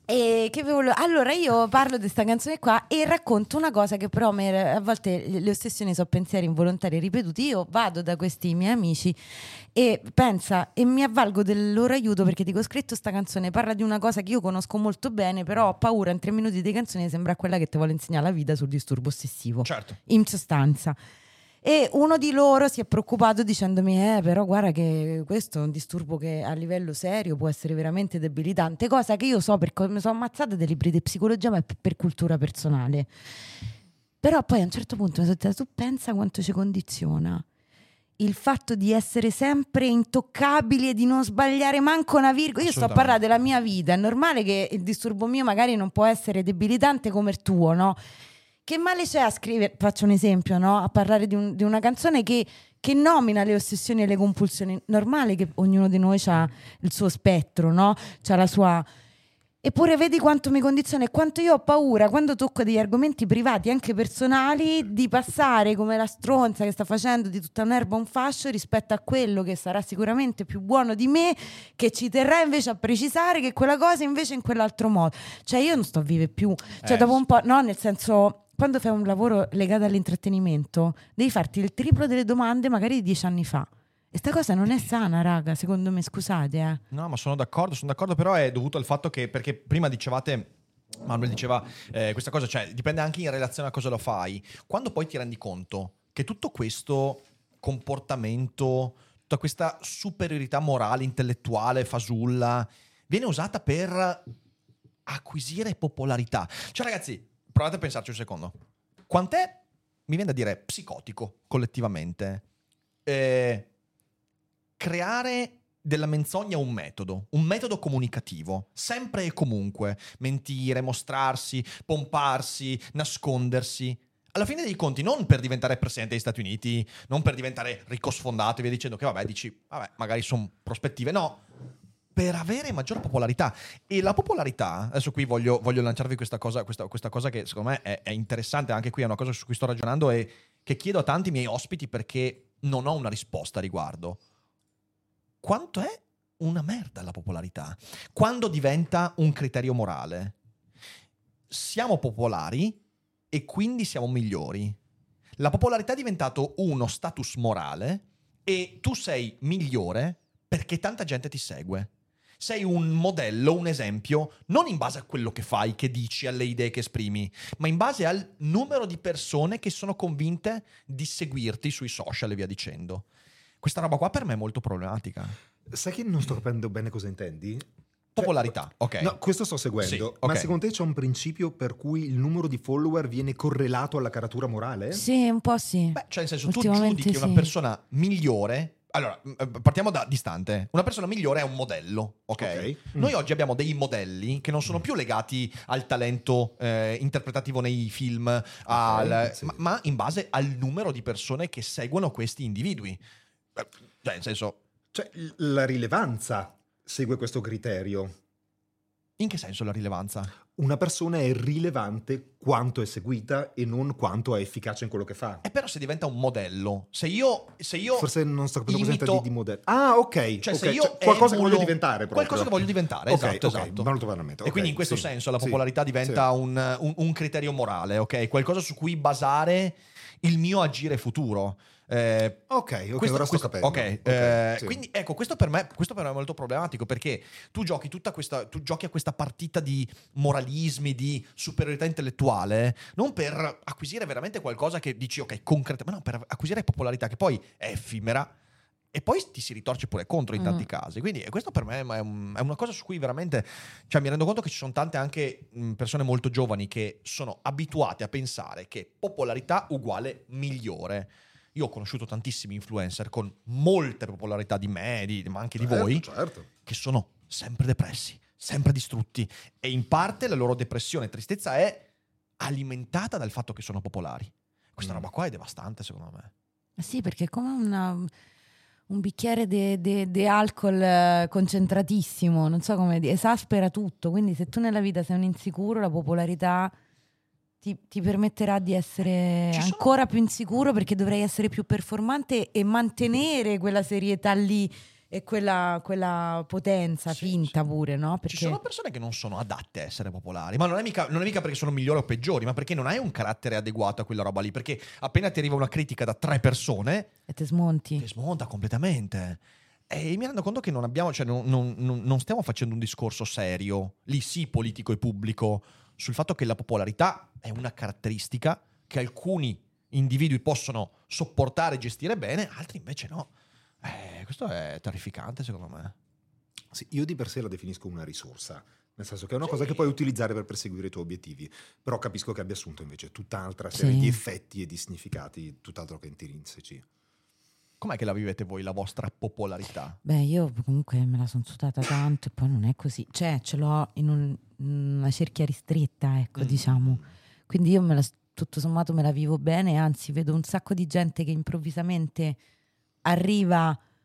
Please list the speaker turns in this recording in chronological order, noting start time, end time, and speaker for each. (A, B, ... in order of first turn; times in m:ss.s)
0:00.1-0:09.2 A
0:09.7-0:21.0 A
0:19.6-0:20.0 B
0:21.6-0:33.1 A
0:34.2-0:37.4 A
0:38.2-0:48.0 A
0:42.6-0:43.2 B
0:48.7-0:58.9 A
0:59.6-1:26.8 A
1:16.8-1:17.2 B
1:26.9-1:30.5 B
1:31.0-1:44.2 B
1:45.1-1:48.6 B
1:49.1-1:52.4 B
1:53.1-1:53.7 B
1:54.8-2:11.4 B
2:12.2-2:24.2 B
2:25.4-2:30.4 B
2:31.5-2:34.8 B
2:35.4-2:53.1 B
2:53.6-2:55.4 B
2:55.7-2:57.7 C
2:58.2-2:59.1 B
2:58.2-3:05.0 C
2:59.8-3:00.5 B
3:04.9-3:07.5 A
3:06.0-3:23.0 B
3:12.4-3:13.1 C
3:18.7-3:19.6 C
3:23.6-3:24.6 B
3:24.9-3:28.1 C
3:29.2-3:30.3 B
3:30.6-3:35.4 C
3:35.4-3:38.1 B
3:38.0-3:42.6 C
3:38.7-3:39.2 B
3:40.4-3:43.9 B
3:43.1-3:46.3 C
3:44.4-3:52.4 B
3:52.5-3:54.8 C
3:53.0-4:08.3 B
4:08.9-4:26.1 B
4:10.4-4:10.6 A
4:25.6-4:26.5 C
4:26.6-4:31.9 B
4:32.4-4:36.3 B
4:34.8-4:35.1 C
4:36.8-4:38.1 A
4:38.9-4:46.7 A
4:47.6-4:58.6 A
4:49.5-4:49.9 B
4:57.1-4:57.5 B
4:58.3-5:07.1 B
5:07.3-5:08.0 A
5:08.0-5:23.3 B
5:23.8-5:25.9 B
5:26.7-5:36.8 C
5:33.7-5:34.2 A
5:37.8-5:40.0 B
5:40.0-5:52.4 A
5:46.4-5:46.6 B
5:53.0-5:53.8 A